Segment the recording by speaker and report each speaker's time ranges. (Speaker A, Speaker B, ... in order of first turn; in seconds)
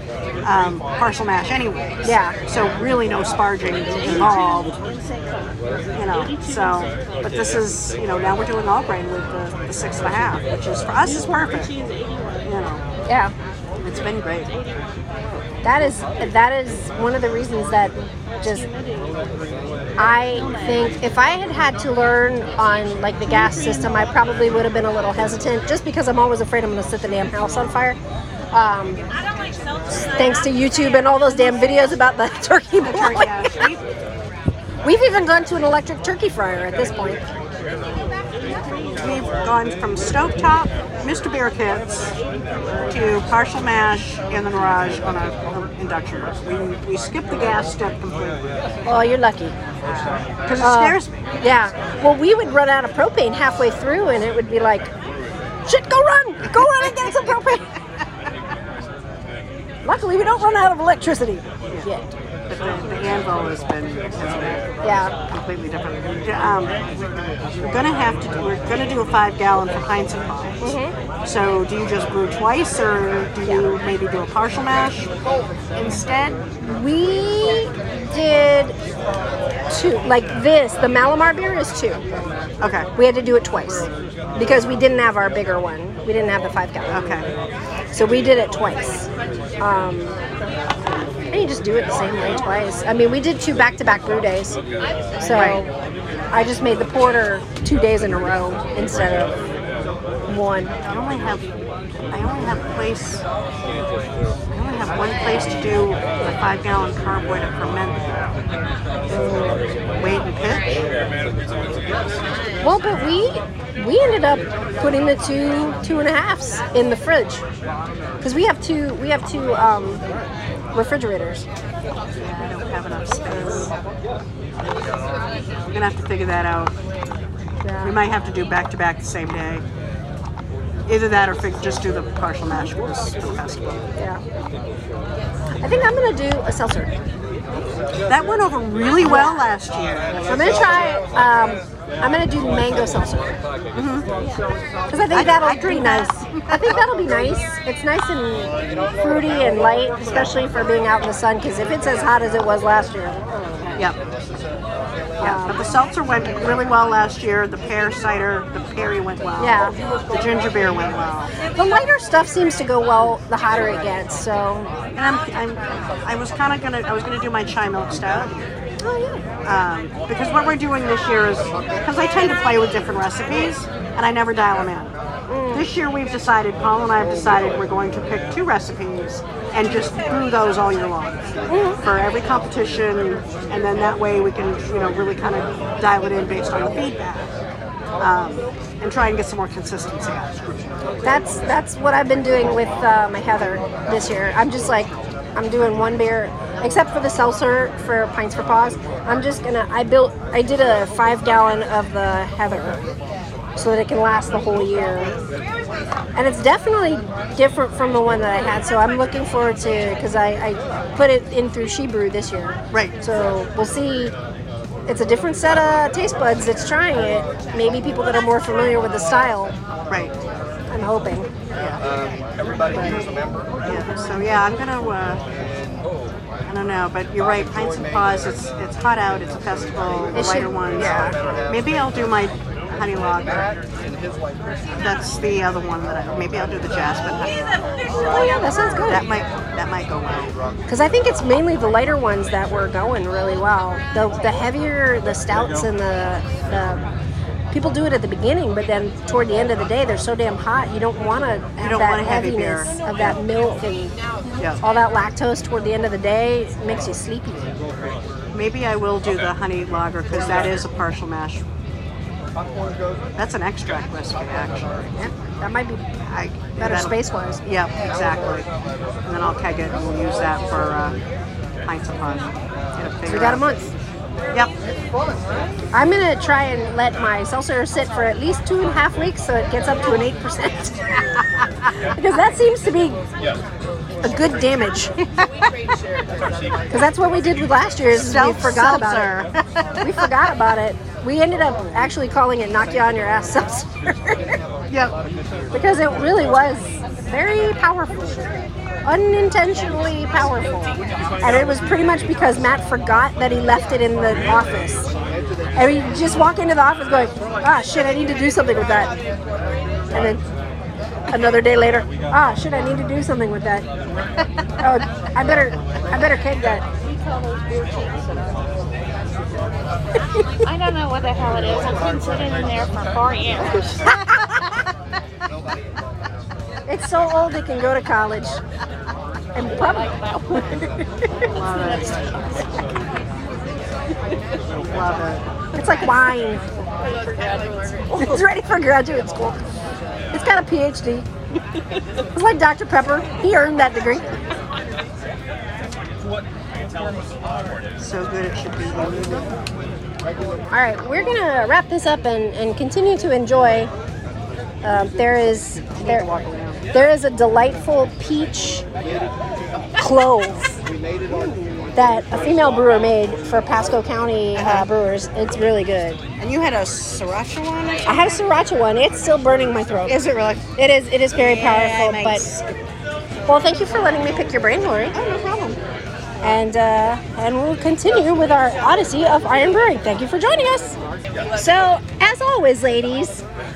Speaker A: 0.4-4.8, 5.9-11.7, 12.4-12.8, 13.8-14.5, 32.8-33.8, 39.0-42.1, 42.9-48.5, 50.4-51.2, 56.6-56.9, 62.5-66.8, 67.6-75.1, 75.7-76.4, 82.6-82.9, 86.9-87.3, 95.3-95.6, 100.8-101.5, 102.1-103.2, 104.5-108.3, 110.0-110.7, 122.2-123.7, 125.7-126.7, 127.8-129.6, 130.9-133.8, 138.1-140.5, 143.7-144.1, 145.1-146.8, 155.2-161.3, 164.9-168.5, 169.4-174.9, 175.5-181.3, 181.8-187.3, 188.0-190.8, 212.7-212.9, 219.9-220.1, 221.6-221.8, 223.6-225.2, 226.4-233.5, 234.7-237.7, 238.8-240.3, 251.6-252.7, 258.3-261.4, 263.1-265.1, 266.0-268.5, 269.0-271.0, 271.6-273.4, 287.9-290.1, 294.7-294.9, 331.2-332.4, 334.6-335.2, 347.8-349.3, 355.8-356.6, 364.4-364.7, 366.2-368.1, 369.9-370.4, 371.1-372.5, 374.9-375.6
Speaker B: 2.0-2.4, 13.1-13.3, 15.6-18.6, 20.0-28.0, 28.5-29.0, 29.9-33.7, 34.8-37.2, 48.9-49.6, 50.6-54.9, 55.6-57.7, 59.8-62.1, 64.8-65.1, 70.6-70.9, 76.6-78.8, 79.7-82.0, 83.0-87.2, 87.9-89.1, 89.6-90.2, 91.3-94.6, 95.2-95.7, 96.3-99.4, 100.3-100.8, 109.1-109.6, 112.6-117.4, 118.2-120.0, 120.7-121.5, 127.6-127.9, 135.6-136.9, 139.0-139.4, 140.3-143.4, 144.9-153.2, 155.2-155.6, 159.4-159.8, 161.5-164.7, 168.8-169.2, 175.3-175.7, 181.5-181.8, 191.0-202.8, 203.6-205.1, 206.1-214.1, 214.9-219.6, 220.7-221.3, 222.7-223.0, 230.1-231.1, 238.0-239.0, 240.7-246.8, 247.5-254.0, 254.6-257.6, 265.0-265.9, 266.6-267.4, 273.1-273.7, 275.7-283.0, 284.0-284.9, 286.7-289.1, 289.8-294.4, 295.5-298.2, 298.8-304.9, 305.6-308.9, 309.9-310.2, 311.1-313.6, 314.6-316.6, 326.7-328.4, 329.3-329.9, 335.5-336.4, 337.9-339.4, 340.1-341.1, 342.1-344.2, 350.5-353.7, 354.6-356.1, 356.7-358.6, 359.8-360.6, 361.1-366.0, 367.9-372.2, 373.3-375.0, 376.2-380.8, 381.3-383.2
Speaker C: 3.8-7.1, 11.0-12.6, 14.4-15.0, 18.4-19.3, 20.0-21.0, 23.2-24.1, 38.4-39.2, 316.8-318.6, 320.4-323.9, 329.7-330.7, 331.4-332.1